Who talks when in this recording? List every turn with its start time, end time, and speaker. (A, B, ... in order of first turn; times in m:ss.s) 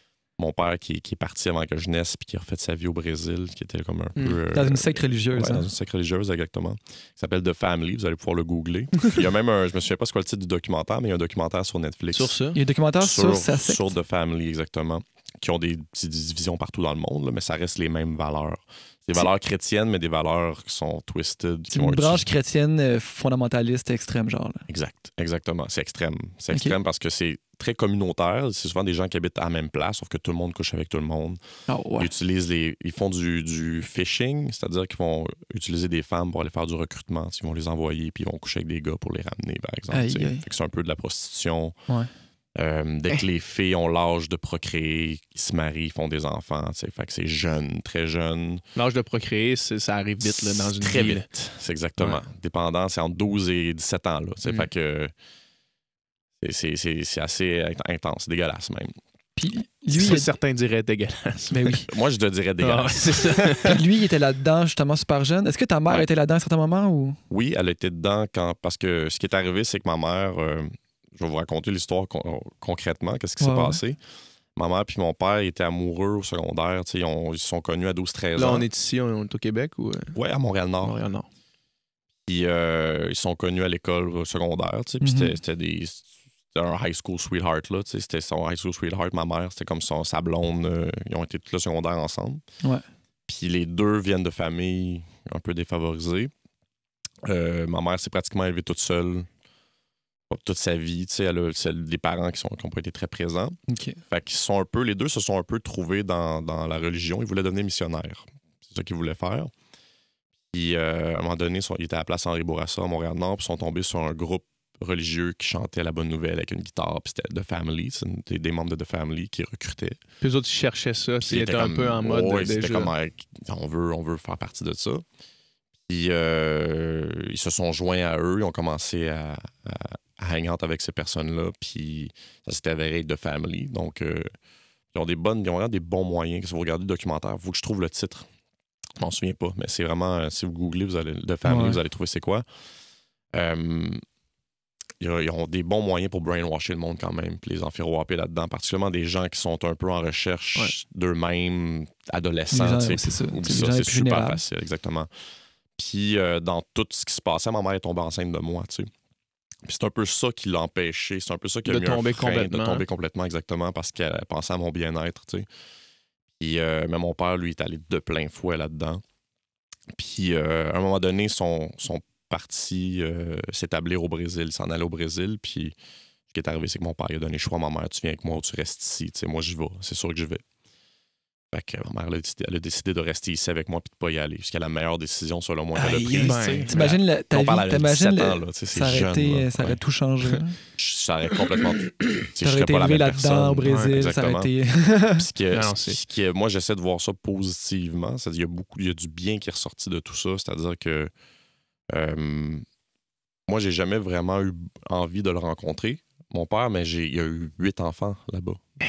0:00.4-0:12.4 A
0:04.2-0:04.4 B
0:04.5-0:05.7 C
0:12.1-0:12.6 B
0:12.5-0:13.9 C
0:13.0-0:22.3 A
0:21.7-0:24.7 C
0:24.7-0:31.4 A
0:26.5-0:26.8 C
0:31.7-0:32.1 C
0:32.0-0:41.8 A
0:39.9-0:40.4 C
0:42.6-0:48.6 A
0:48.7-0:51.3 B
0:50.2-0:55.1 A
0:52.0-0:52.2 B
0:56.4-0:58.9 A
0:59.4-1:00.3 C
0:59.9-1:01.8 B
1:01.5-1:01.9 C
1:01.9-1:03.8 A
1:02.6-1:03.7 B
1:03.6-1:07.2 C
1:07.3-1:14.0 A
1:13.4-1:13.8 C
1:14.6-1:18.6 A
1:18.4-1:20.2 B
1:20.1-1:21.0 A
1:20.8-1:21.3 B
1:22.2-1:32.4 A
1:25.0-1:25.4 C
1:33.3-1:36.3 A
1:37.2-1:39.3 A
1:40.3-1:43.6 A
1:43.7-1:44.0 C
1:44.1-1:49.5 A
1:50.5-2:00.0 A
2:00.2-2:02.9 B
2:01.2-2:05.0 A
2:05.9-2:14.3 A
2:14.9-2:18.3 A
2:19.0-2:22.4 A
2:21.4-2:21.8 C
2:23.3-2:24.0 A
2:25.0-2:35.1 A
2:32.5-2:34.4 C
2:35.7-2:38.9 A
2:39.6-2:45.5 A
2:41.6-2:42.8 B
2:46.4-2:49.0 A
2:49.9-2:55.7 A
2:56.3-3:00.4 A
3:01.5-3:09.8 A
3:05.8-3:06.7 B
3:06.2-3:10.6 C
3:10.6-3:21.1 A
3:12.4-3:15.3 C
3:13.6-3:14.0 B
3:15.5-3:16.0 B
3:21.9-3:22.6 A
3:23.5-3:28.6 A